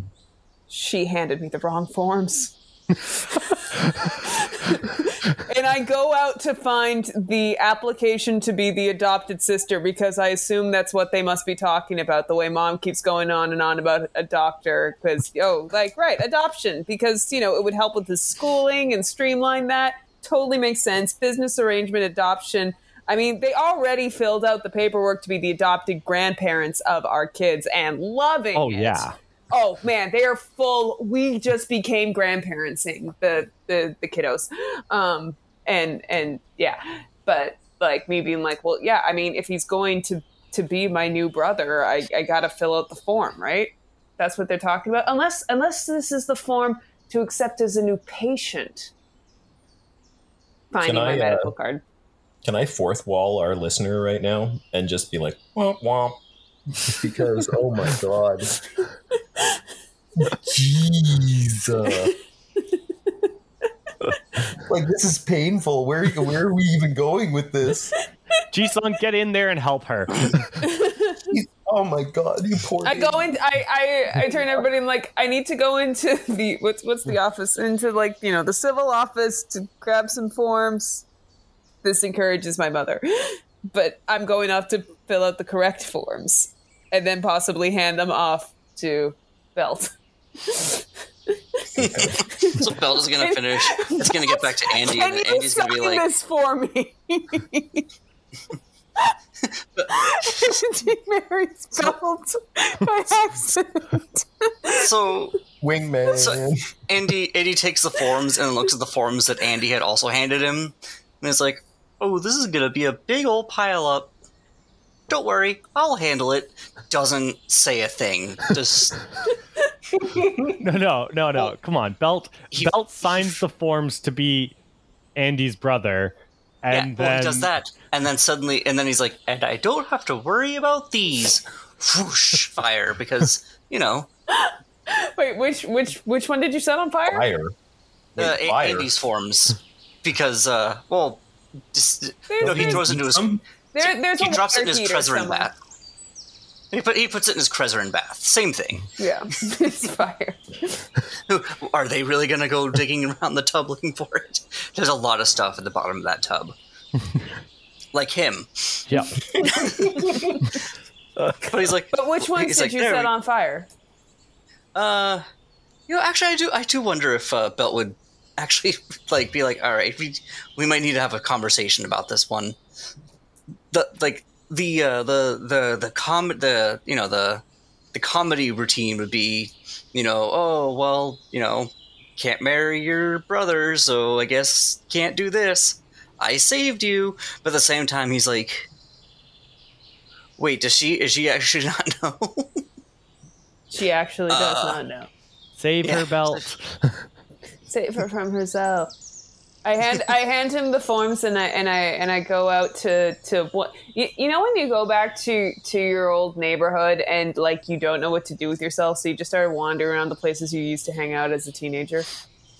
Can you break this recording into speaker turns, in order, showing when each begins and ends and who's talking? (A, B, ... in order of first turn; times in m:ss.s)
0:00.7-0:48.9 A
0:28.5-0:29.2 B
0:50.7-0:51.8 A
0:50.8-0:51.5 C
0:52.4-0:56.2 C
0:56.8-0:58.6 C
1:00.2-1:02.1 C
1:04.6-1:08.0 C
1:08.5-1:10.4 B
1:10.6-1:11.3 A
1:11.3-1:13.3 C
1:12.8-1:21.0 A
1:21.8-1:31.4 A
1:31.8-1:32.2 C
1:32.0-1:37.8 A
1:32.2-1:36.0 D
1:39.8-1:40.5 D
1:39.9-1:44.9 A
1:44.8-1:45.4 D
1:45.6-1:46.6 C
1:46.1-1:54.1 D
1:55.1-1:59.0 D
1:59.9-2:00.6 A
2:00.6-2:04.6 B
2:02.5-2:03.4 D
2:05.2-2:07.5 B
2:06.7-2:14.1 D
2:14.3-2:17.2 A
2:17.1-2:17.5 C
2:18.1-2:18.9 C
2:18.2-2:25.5 D
2:22.3-2:23.0 A
2:22.4-2:23.4 C
2:23.7-2:25.5 A
2:26.7-2:28.9 D
2:29.0-2:30.8 A
2:31.3-2:36.5 D
2:37.9-2:40.6 D
2:38.9-2:39.1 B
2:39.3-2:40.4 C
2:41.4-2:43.1 D
2:41.9-2:43.7 A
2:44.7-2:45.2 D
2:45.9-2:52.6 D
2:53.7-2:57.4 D
2:57.9-3:08.7 D
3:10.4-3:12.6 D
3:13.7-3:15.1 A
3:14.3-3:14.8 D
3:15.6-3:17.0 B
3:15.8-3:16.4 D
3:17.7-3:18.9 A
3:19.6-3:32.1 A